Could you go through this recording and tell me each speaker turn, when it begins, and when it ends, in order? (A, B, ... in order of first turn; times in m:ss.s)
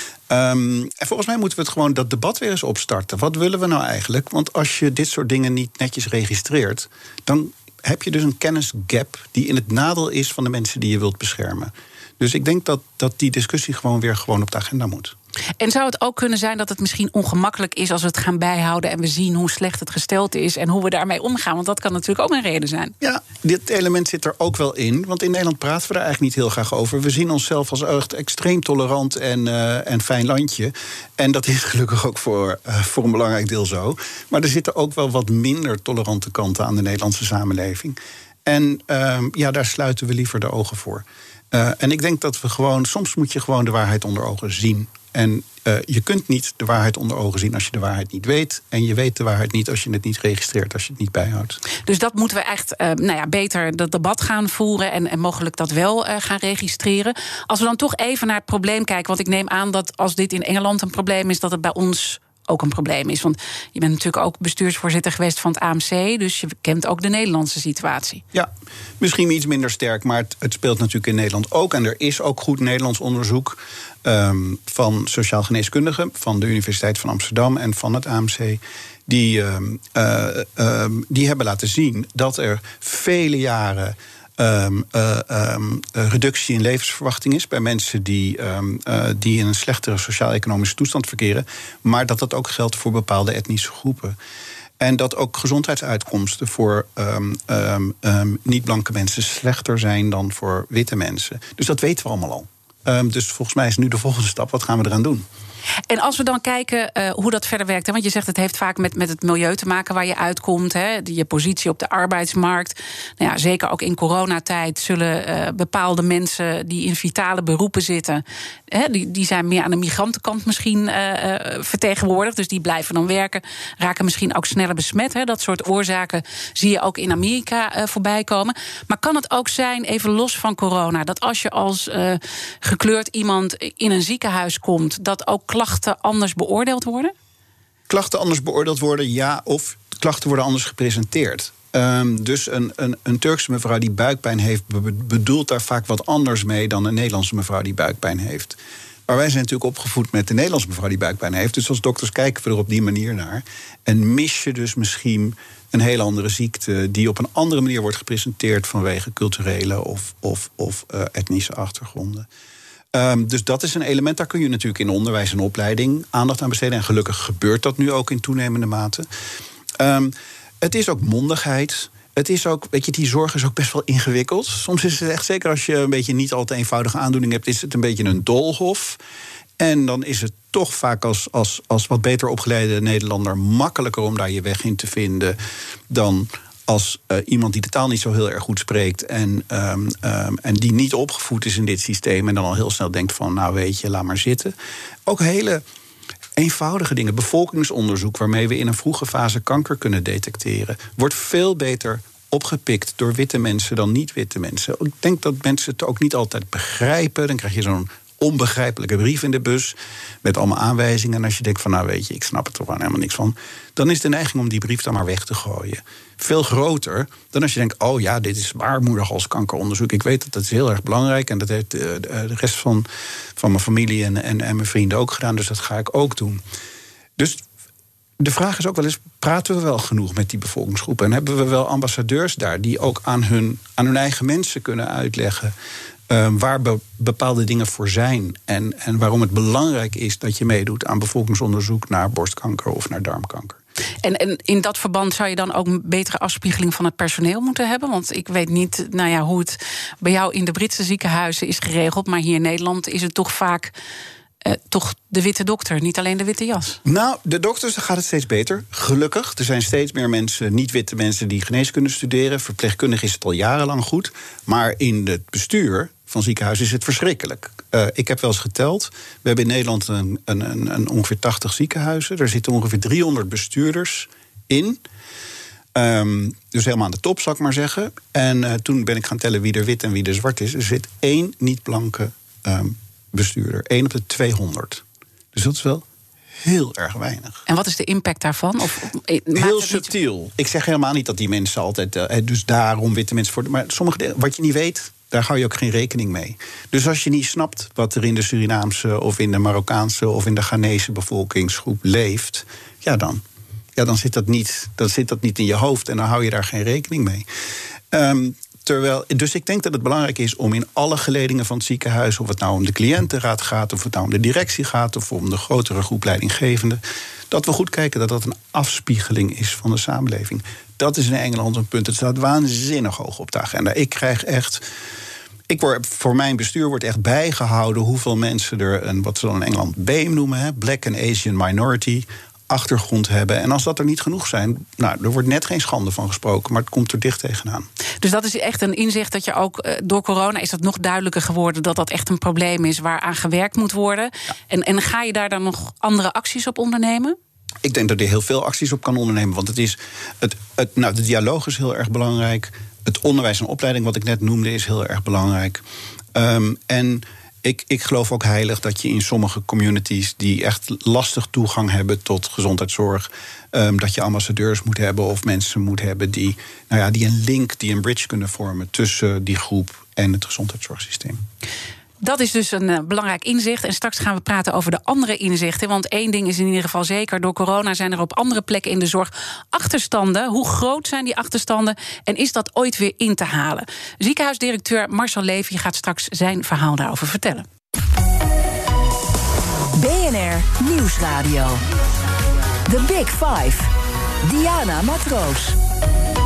0:00.3-0:15.1 A
0:15.6-0:22.9 B
0:23.0-0:51.6 A
0:51.9-1:08.2 B
1:08.3-1:34.2 A
1:34.8-1:45.3 A
1:45.9-2:17.1 B
2:17.9-2:42.3 A
2:42.9-2:49.1 A
2:49.8-2:59.0 A
2:59.6-3:05.4 A
3:05.9-3:14.5 A
3:15.1-3:15.6 A
3:16.4-3:46.4 A
3:47.2-3:47.4 A
3:48.2-3:55.5 A
3:56.1-4:03.6 A
4:04.0-4:13.7 B
4:14.4-4:16.8 B
4:16.8-4:34.8 A
4:35.8-4:45.9 A
4:46.4-4:47.4 A
4:47.5-4:49.9 B
4:49.4-5:03.2 A
5:03.8-5:07.3 A
5:07.9-5:24.6 A
5:25.5-5:37.7 A
5:38.0-5:47.2 B
5:47.6-5:55.6 A
5:56.1-6:11.2 A
6:12.0-6:27.5 B
6:29.8-6:31.6 C
6:32.7-6:33.7 C
6:34.2-6:35.6 C